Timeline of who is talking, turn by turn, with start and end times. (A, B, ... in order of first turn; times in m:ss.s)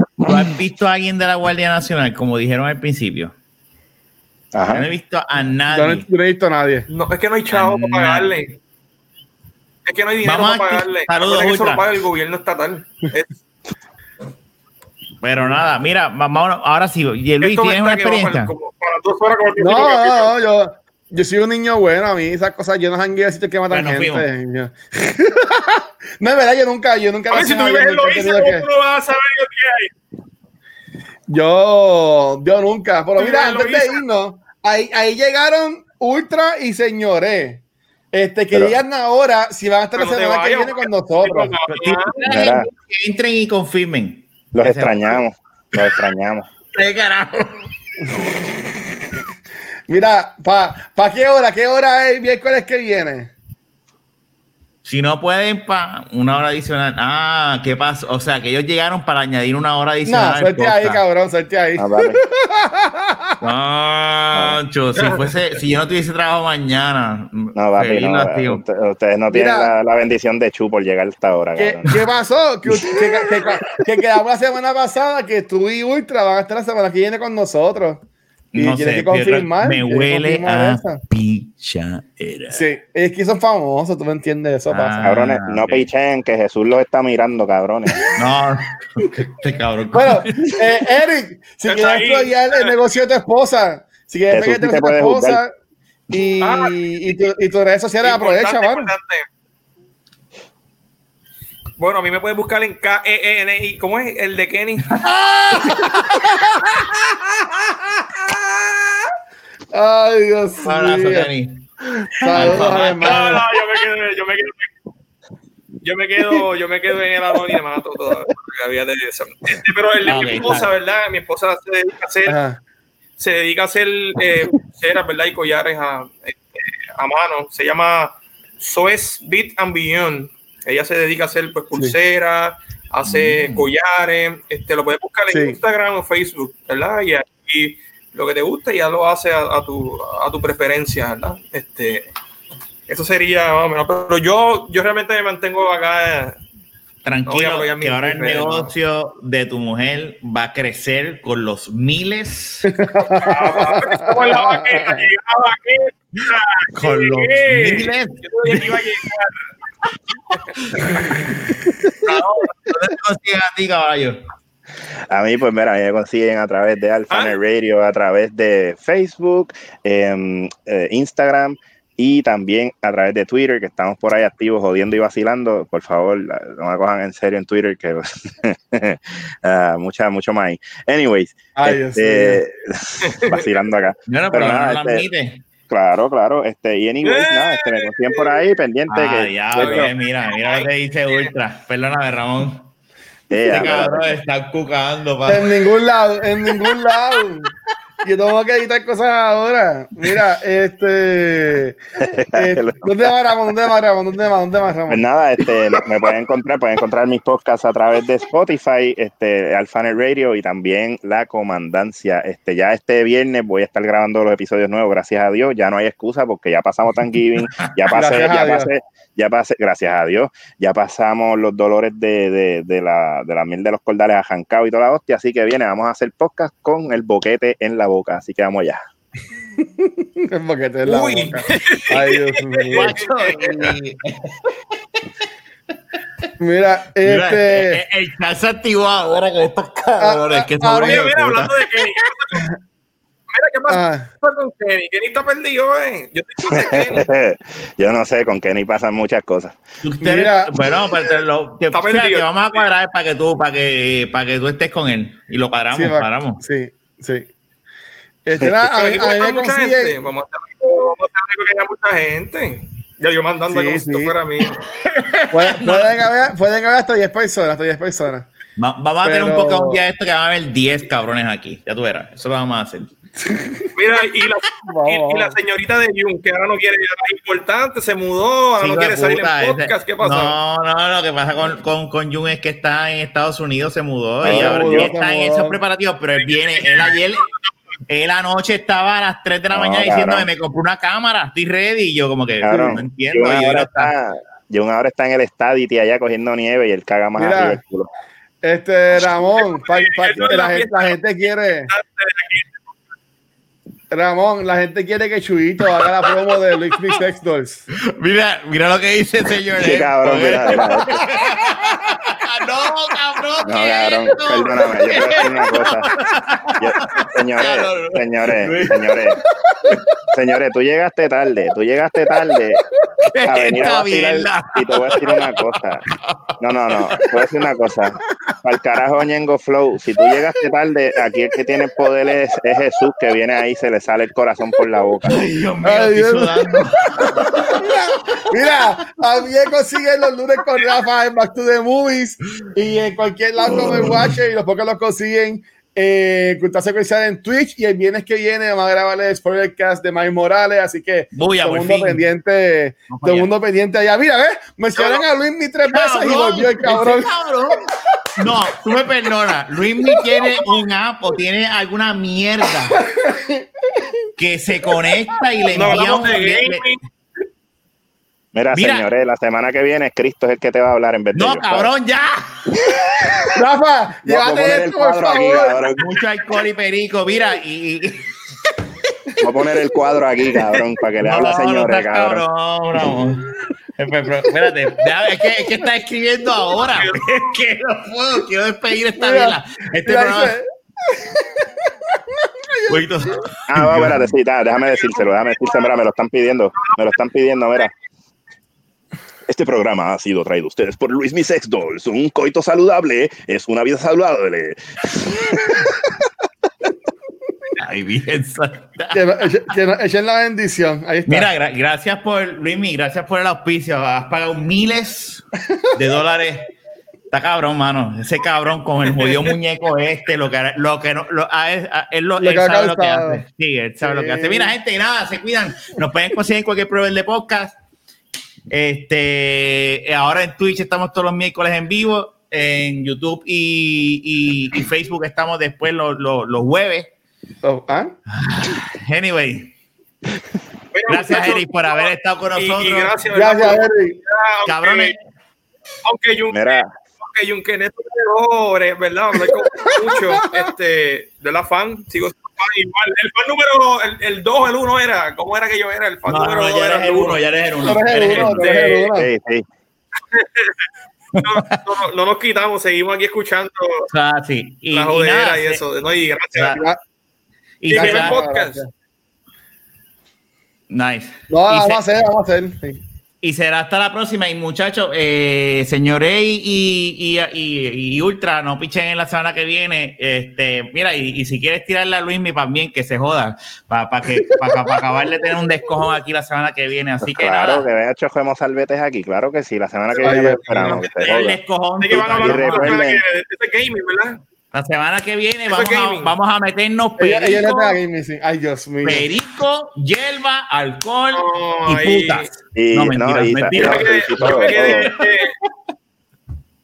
0:00.2-0:03.3 A
0:04.5-0:04.9 B
0:04.7-0:06.1 A
0:05.7-0:06.9 C
0:06.9-0:08.6 D
0:07.5-0:08.4 A
0:09.8-0:13.4 D
0:10.2-0:11.8 A
0:15.2-0:18.5 A
0:17.4-0:20.3 D
0:19.6-0:28.7 C
0:23.7-0:24.3 A
0:27.3-0:29.9 D
0:31.3-0:37.6 C
0:33.2-0:34.0 D
0:38.1-0:41.6 C
0:38.5-0:38.8 B
0:40.0-0:42.2 D
0:41.7-0:45.2 A
0:42.2-0:42.7 B
0:44.5-0:46.5 B
0:46.7-0:47.6 A
0:49.9-0:53.3 C
0:54.8-1:01.0 A
1:00.0-1:03.4 C
1:01.8-1:02.2 B
1:03.4-1:08.6 A
1:04.9-1:05.3 D
1:07.6-1:12.0 B
1:09.3-1:09.7 C
1:11.6-1:18.0 C
1:18.5-1:22.6 A
1:18.6-1:21.0 C
1:22.5-1:25.0 C
1:24.7-1:25.9 A
1:25.0-1:28.0 B
1:28.1-1:30.8 A
1:29.9-1:35.5 C
1:31.6-1:32.7 D
1:34.3-1:35.4 B
1:36.1-1:38.9 C
1:36.4-1:36.7 D
1:38.0-1:39.3 D
1:41.8-1:45.0 D
1:45.1-1:45.8 A
1:45.5-1:47.2 C
1:49.7-1:51.3 C
1:50.6-1:51.6 A
1:52.2-1:53.5 C
1:52.2-1:53.4 A
1:52.5-1:54.7 D
1:55.8-2:02.4 D
2:00.0-2:00.7 A
2:02.3-2:02.6 C
2:03.2-2:22.1 D
2:13.0-2:13.6 A
2:15.3-2:15.6 C
2:22.9-2:26.4 D
2:27.0-2:32.7 A
2:27.3-2:28.7 D
2:32.7-2:35.1 C
2:33.2-2:39.4 D
2:36.7-2:38.8 A
2:40.6-2:41.2 A
2:40.7-2:41.3 D
2:42.0-2:42.5 D
2:42.0-2:44.2 A
2:45.1-3:05.0 B
3:01.6-3:02.4 C
3:03.0-3:03.5 D
3:04.1-3:05.4 A
3:05.7-3:09.9 B
3:07.0-3:08.4 D
3:08.9-3:12.6 A
3:09.6-3:11.3 D
3:13.3-3:14.1 B
3:13.5-3:15.6 A
3:15.3-3:21.8 C
3:22.0-3:23.1 B
3:22.3-3:25.0 C
3:24.9-3:48.8 B
3:37.4-3:37.7 A
3:37.9-3:38.7 C
3:49.6-3:53.8 C
3:50.9-3:53.6 D
3:52.7-3:54.5 A
3:56.4-3:57.8 C
3:57.0-4:01.9 A
4:00.0-4:01.1 C
4:00.8-4:02.5 D
4:03.3-4:07.1 D
4:03.7-4:04.1 C
4:06.5-4:09.6 B
4:09.8-4:16.4 A
4:10.0-4:10.8 C
4:11.7-4:12.6 D
4:15.7-4:17.3 C
4:18.3-4:20.0 C
4:18.6-4:24.6 D
4:23.5-4:24.2 C
4:24.8-4:25.9 A
4:25.3-4:28.3 C
4:28.6-4:32.9 A
4:29.0-4:29.8 C
4:33.2-4:33.7 C
4:33.8-4:40.4 D
4:34.6-4:35.4 C
4:38.6-4:47.3 A
4:44.2-4:44.9 B
4:44.2-4:45.6 C
4:46.2-4:47.0 D
4:47.9-4:53.9 A
4:49.5-4:50.3 B
4:52.4-4:57.9 B
4:57.2-4:57.6 C
4:58.4-5:01.7 C
4:59.5-5:00.9 D
5:01.7-5:02.6 D
5:03.9-5:07.7 C
5:07.8-5:19.8 A
5:09.6-5:11.0 B
5:11.1-5:11.8 C
5:13.4-5:15.9 B
5:14.9-5:15.6 C
5:16.6-5:19.2 B
5:20.1-5:22.6 B
5:23.0-5:27.2 A
5:23.2-5:25.8 B
5:26.4-5:35.2 B
5:35.1-5:38.4 A
5:35.6-5:57.1 C
5:43.5-5:44.1 A
5:51.1-5:52.0 A
5:52.9-5:53.3 A
5:54.7-5:55.0 D
5:55.7-5:57.6 A
5:58.2-6:02.8 A
6:00.0-6:00.2 C
6:02.8-6:03.9 C
6:04.2-6:06.6 A
6:05.5-6:06.8 D
6:08.3-6:11.7 B
6:08.5-6:08.9 A
6:11.2-6:13.2 A
6:13.3-6:15.6 C
6:14.0-6:15.8 B
6:15.8-6:18.1 A
6:19.2-6:22.2 B
6:21.0-6:30.4 A
6:26.7-6:27.4 D
6:29.0-6:32.8 C
6:32.7-6:34.1 A
6:33.5-6:37.7 B
6:34.7-6:35.7 D
6:36.7-6:37.0 D
6:39.3-6:45.6 B
6:47.6-6:49.5 A
6:48.9-6:51.3 C
6:51.1-6:56.5 A
6:57.1-7:07.6 A
7:02.2-7:03.2 C
7:03.8-7:04.5 C
7:08.5-7:16.9 A
7:17.4-7:17.9 C
7:18.1-7:19.5 A
7:20.7-7:24.9 D
7:20.9-7:23.0 A
7:23.1-7:24.0 C
7:24.4-7:25.0 A
7:25.8-7:37.2 D
7:26.3-7:26.7 B
7:29.3-7:30.4 C
7:36.1-7:38.6 A
7:37.6-7:39.1 C
7:38.0-7:38.9 D
7:38.9-7:39.5 B
7:40.1-7:40.6 D
7:41.2-7:41.6 A
7:41.2-7:43.9 D
7:43.9-7:45.6 A
7:44.7-7:46.6 D
7:46.3-7:46.6 A
7:47.6-7:48.2 A
7:47.7-7:48.6 D
7:47.7-7:48.7 C
7:50.7-7:51.8 A
7:51.3-7:52.8 C
7:53.2-8:07.6 A
8:04.2-8:04.6 C
8:07.0-8:11.4 B
8:10.0-8:11.2 D
8:10.0-8:10.8 C
8:11.0-8:12.8 A
8:11.8-8:14.2 D
8:11.9-8:13.0 B
8:14.5-8:17.8 A
8:15.5-8:16.1 D
8:17.0-8:19.1 C
8:18.8-8:24.8 A
8:21.1-8:22.3 D
8:22.6-8:24.9 B
8:23.5-8:25.4 D